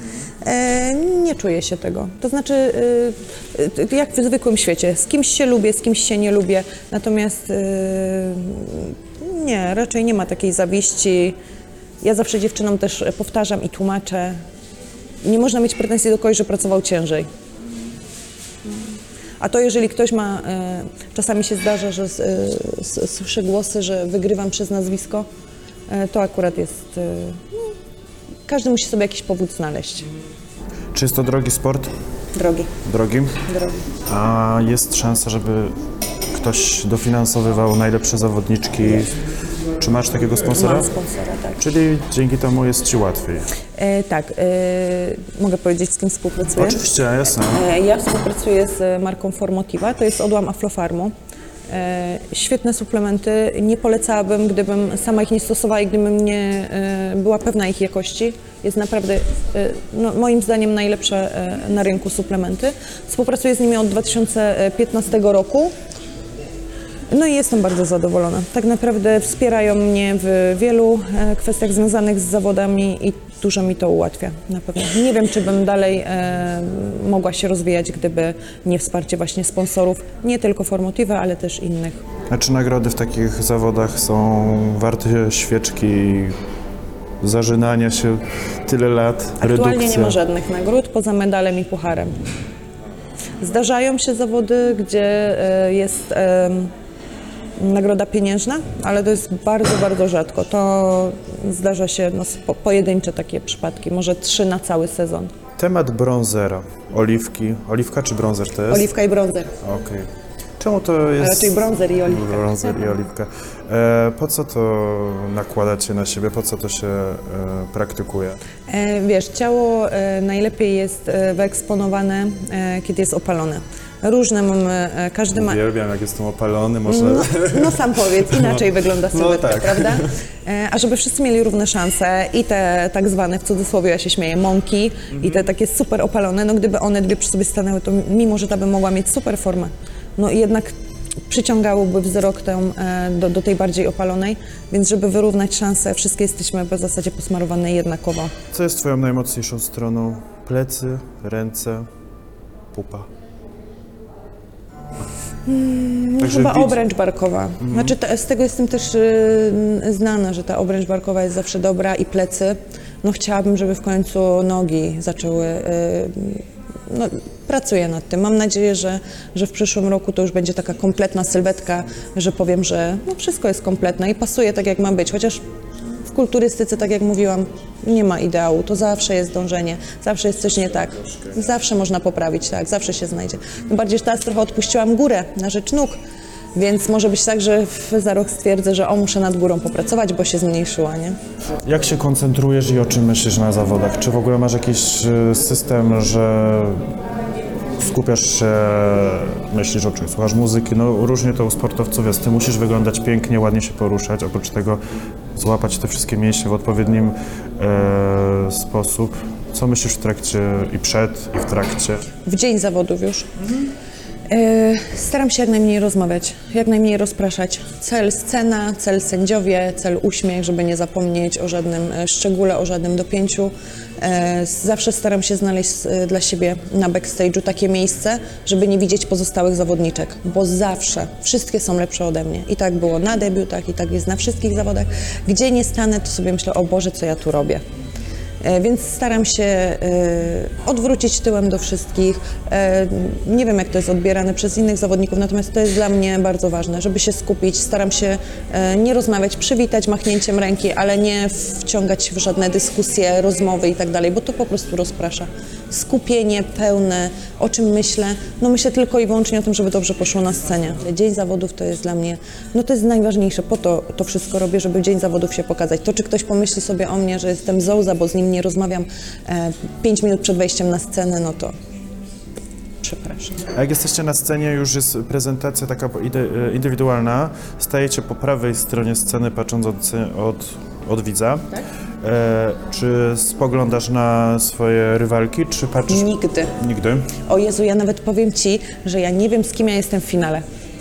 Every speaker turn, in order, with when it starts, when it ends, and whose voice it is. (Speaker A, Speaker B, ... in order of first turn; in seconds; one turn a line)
Speaker A: 0.4-11.4
Speaker A: 12.0-14.4
Speaker A: 15.2-17.3
Speaker A: 19.4-25.3
Speaker A: 25.9-27.7
Speaker A: 28.5-30.1
Speaker B: 30.9-31.9
Speaker A: 32.4-32.7
Speaker B: 32.8-33.5
Speaker A: 33.5-33.9
Speaker B: 34.1-35.8
Speaker B: 36.3-39.2
Speaker B: 39.8-40.9
Speaker A: 40.5-41.6
Speaker B: 41.6-43.5
Speaker A: 43.8-46.8
Speaker B: 46.6-47.6
Speaker A: 47.4-51.1
Speaker A: 51.7-65.7
Speaker A: 67.1-82.0
Speaker B: 82.3-86.4
Speaker B: 87.2-90.2
Speaker A: 89.4-92.1
Speaker A: 93.4-96.7
Speaker A: 97.6-105.3
Speaker B: 105.6-108.9
Speaker A: 108.7-109.6
Speaker B: 109.6-118.4
Speaker A: 111.2-112.8
Speaker A: 118.7-125.6
Speaker B: 125.3-130.1
Speaker A: 126.9-140.8
Speaker A: 141.3-148.3
Speaker B: 148.5-151.9
Speaker B: 152.7-153.1
Speaker A: 155.5-175.4
Speaker B: 156.2-156.8
Speaker B: 157.6-157.9
Speaker A: 176.1-186.0
Speaker A: 186.6-191.2
Speaker B: 191.7-196.8
Speaker B: 197.8-204.8
Speaker B: 205.3-212.1
Speaker A: 212.2-213.3
Speaker A: 214.3-237.6
Speaker A: 238.4-271.5
Speaker A: 272.8-273.4
Speaker B: 273.5-287.2
Speaker A: 285.9-286.6
Speaker A: 287.2-290.4